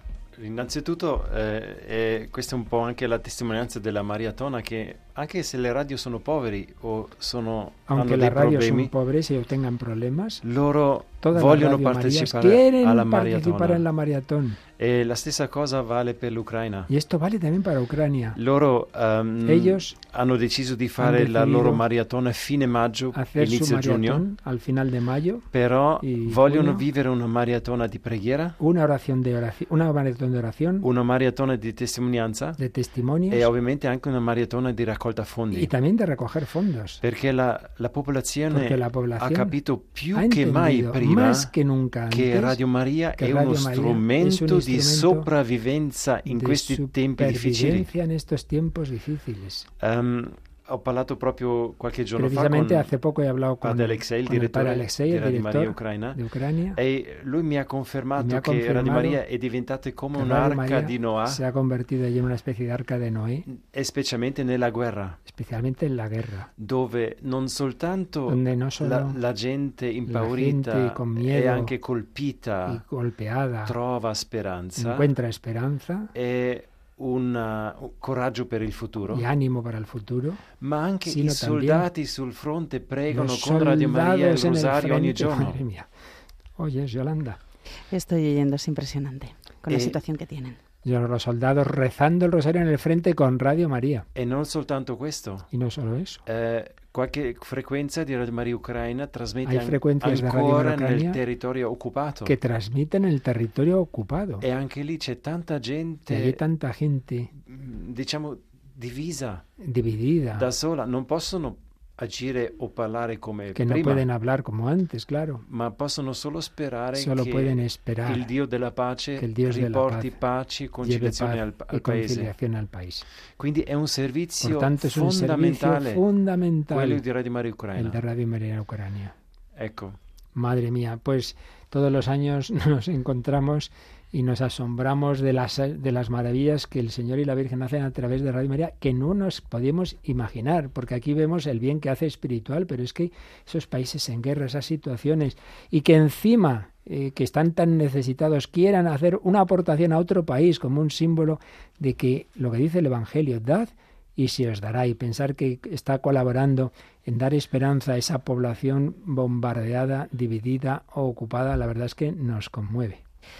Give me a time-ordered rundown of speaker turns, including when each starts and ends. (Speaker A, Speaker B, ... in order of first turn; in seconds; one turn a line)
Speaker A: 0.3-8.9
Speaker B: 7.9-10.4
Speaker A: 10.4-13.8
Speaker B: 11.2-14.6
Speaker A: 14.8-16.9
Speaker B: 16.9-18.4
Speaker A: 18.4-24.2
Speaker B: 19.4-19.9
Speaker B: 21.0-21.8
Speaker B: 23.1-25.4
Speaker A: 25.5-28.6
Speaker B: 26.0-26.8
Speaker B: 28.6-30.9
Speaker A: 30.8-32.6
Speaker B: 32.6-33.5
Speaker A: 33.3-35.7
Speaker B: 35.5-37.0
Speaker A: 37.0-41.5
Speaker B: 38.5-39.5
Speaker B: 40.1-42.6
Speaker A: 42.1-47.9
Speaker B: 43.2-45.3
Speaker B: 46.2-49.7
Speaker A: 49.8-52.9
Speaker B: 52.2-56.8
Speaker A: 53.6-56.2
Speaker A: 56.8-61.4
Speaker B: 58.2-59.2
Speaker B: 60.1-63.5
Speaker A: 63.5-65.2
Speaker B: 65.3-66.5
Speaker A: 66.6-72.8
Speaker B: 68.3-69.2
Speaker B: 70.1-71.7
Speaker B: 72.7-73.8
Speaker A: 73.7-75.1
Speaker B: 74.8-76.1
Speaker A: 76.1-79.2
Speaker B: 79.1-80.4
Speaker A: 80.6-85.6
Speaker B: 81.1-81.9
Speaker B: 83.1-85.9
Speaker B: 86.6-87.4
Speaker C: 87.9-90.6
Speaker A: 89.7-90.0
Speaker B: 90.8-94.1
Speaker A: 94.2-95.5
Speaker B: 95.5-96.2
Speaker A: 96.2-102.3
Speaker B: 99.4-101.2
Speaker B: 102.2-104.4
Speaker A: 104.4-106.4
Speaker B: 106.1-107.3
Speaker A: 107.4-109.4
Speaker B: 109.6-110.5
Speaker A: 110.3-114.0
Speaker B: 113.5-115.4
Speaker A: 115.5-122.3
Speaker B: 117.0-118.3
Speaker B: 119.2-120.2
Speaker B: 120.8-123.0
Speaker A: 123.4-126.0
Speaker B: 124.4-127.0
Speaker A: 126.7-128.0
Speaker B: 127.8-129.1
Speaker A: 129.6-130.0
Speaker B: 130.3-163.0